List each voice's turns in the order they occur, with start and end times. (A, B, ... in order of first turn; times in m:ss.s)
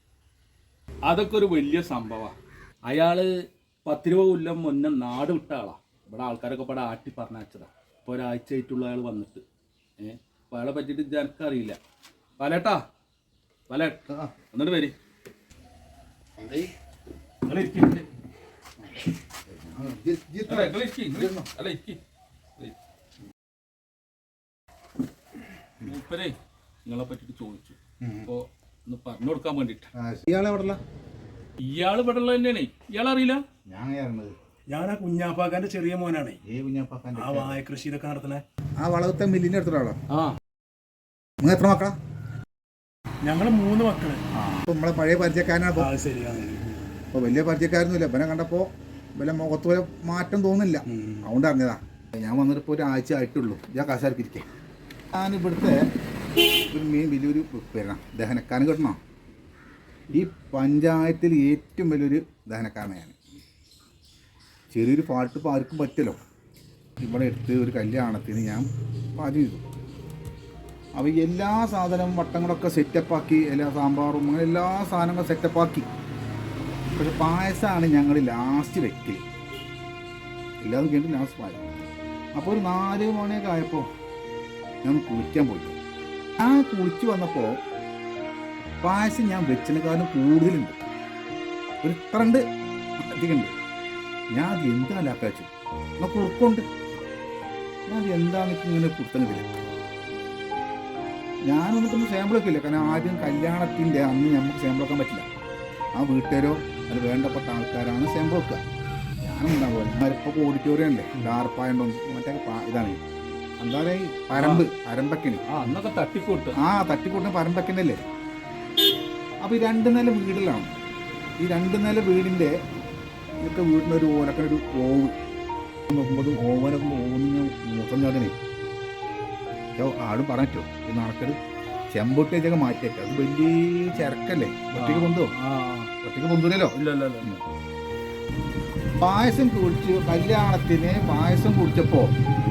0:01.0-0:02.3 A
0:02.8-0:03.3 A
0:03.8-0:09.4 A
0:10.0-0:11.8 A
0:12.4-0:12.8 A
0:13.7-0:14.9 A
0:14.1-0:14.3 B
0:16.4-0:16.7 B
0:17.4-0:18.1 A
0:18.9-0:21.5 B
0:20.5-0:22.0 A
0:25.8-0:29.9 A
0:28.0-0:28.3 B
0:29.9-0:30.8 B
0:31.6-0:33.4 A
0:33.7-0:34.3 B
0:34.7-0:36.4 C
0:36.4-0:37.6 B
0:37.2-0:38.4 C
0:38.8-0:40.0 B
0:40.1-0:40.4 A
0:41.4-0:41.9 B
0:43.2-0:44.2 C
0:44.3-0:45.9 B
0:45.8-0:46.8 C
0:47.1-0:54.4 B
0:50.9-0:51.3 C
0:55.1-0:55.8 B
0:56.7-0:59.0 B
1:00.1-1:03.2 B
1:04.7-1:06.2 B
1:07.0-1:09.6 B
1:11.0-1:15.9 B
1:16.9-1:19.2 B
1:20.6-1:21.8 B
1:22.4-1:23.9 B
1:24.8-1:25.8 B
1:26.4-1:27.6 B
1:28.8-1:30.8 B
1:31.8-1:32.4 B
1:33.0-1:33.5 B
1:34.3-1:36.6 B
1:37.9-1:39.5 B
1:41.4-1:45.2 B
1:46.0-1:48.6 B
1:49.2-1:53.0 B
1:53.6-1:55.4 B
1:54.3-1:54.6 A
1:55.5-1:56.6 A
1:56.6-1:58.0 B
1:59.4-2:00.8 B
2:01.4-2:02.5 B
2:03.4-2:05.1 B
2:05.9-2:08.3 B
2:09.8-2:11.4 B
2:11.9-2:15.3 B
2:14.8-2:15.9 A
2:16.0-2:17.4 B
2:16.7-2:17.4 A
2:19.0-2:22.1 B